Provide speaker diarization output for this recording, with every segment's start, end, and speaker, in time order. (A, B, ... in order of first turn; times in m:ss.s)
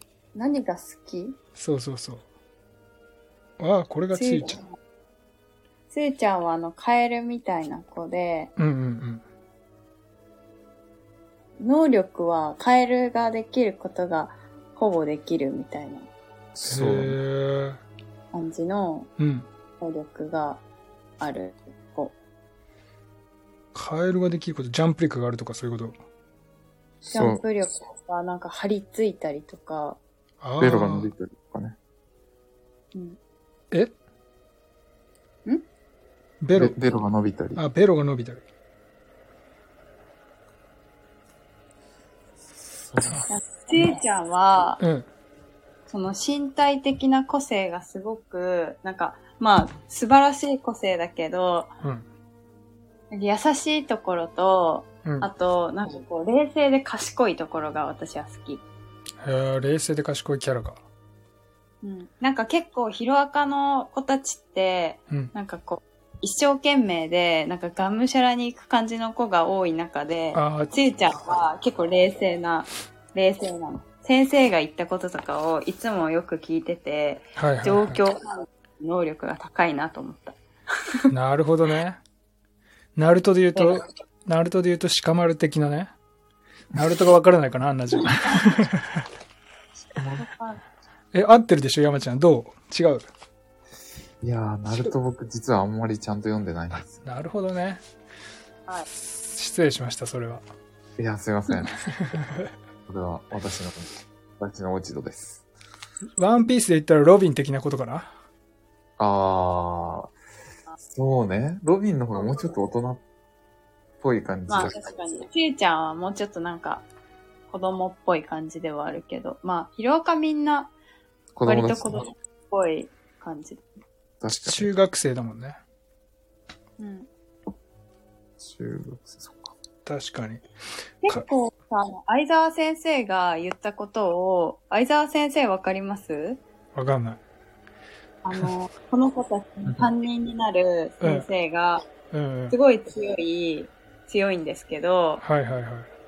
0:00.3-0:01.4 A
0:01.6-0:02.2 B
0:03.6-0:04.6 B
0:04.1-0:04.7 A
0:05.9-0:08.5 A
0:08.6-0:09.2 B
0:11.6-0:16.1 A
0:16.5-0:17.2 C
0:16.6-0:17.8 B
0:18.3-0:19.1 A
0:19.2-0:19.5 B
0:19.8-0:20.6 A
0:21.2-0:22.1 A
0:23.7-0:25.9 B
0:27.0-0:27.4 C
0:27.1-0:30.0 A
0:30.4-0:31.1 B
0:30.6-0:31.8 C
0:36.4-0:36.8 B
0:36.6-0:37.6 C
0:37.6-0:38.4 B
0:42.7-0:43.2 C
0:43.3-0:44.8 A
0:44.8-0:45.1 B
0:45.9-0:51.7 A
0:53.1-0:58.6 A
0:59.2-1:00.8 B
1:01.8-1:20.4 A
1:10.3-1:10.7 B
1:17.4-1:18.0 B
1:21.1-1:22.0 B
1:23.0-1:25.9 B
1:26.7-1:29.0 B
1:29.9-1:30.2 C
1:30.2-1:30.6 A
1:31.1-1:33.1 B
1:34.2-1:37.0 C
1:37.0-1:37.8 B
1:38.9-1:40.4 B
1:41.0-1:41.8 C
1:41.9-1:42.5 B
1:42.8-1:45.4 C
1:46.2-1:48.1 B
1:49.0-1:50.1 C
1:50.8-1:53.0 C
1:54.0-1:54.8 C
1:54.5-1:56.9 A
1:57.5-2:00.7 A
2:01.4-2:02.0 C
2:01.4-2:03.6 A
2:04.2-2:04.7 C
2:04.3-2:05.6 B
2:06.8-2:07.1 A
2:08.4-2:09.5 C
2:09.8-2:10.4 B
2:11.0-2:16.4 A
2:16.7-2:17.2 B
2:18.2-2:21.9 A
2:21.0-2:21.3 B
2:22.1-2:22.6 B
2:22.5-2:25.2 A
2:25.2-2:25.9 B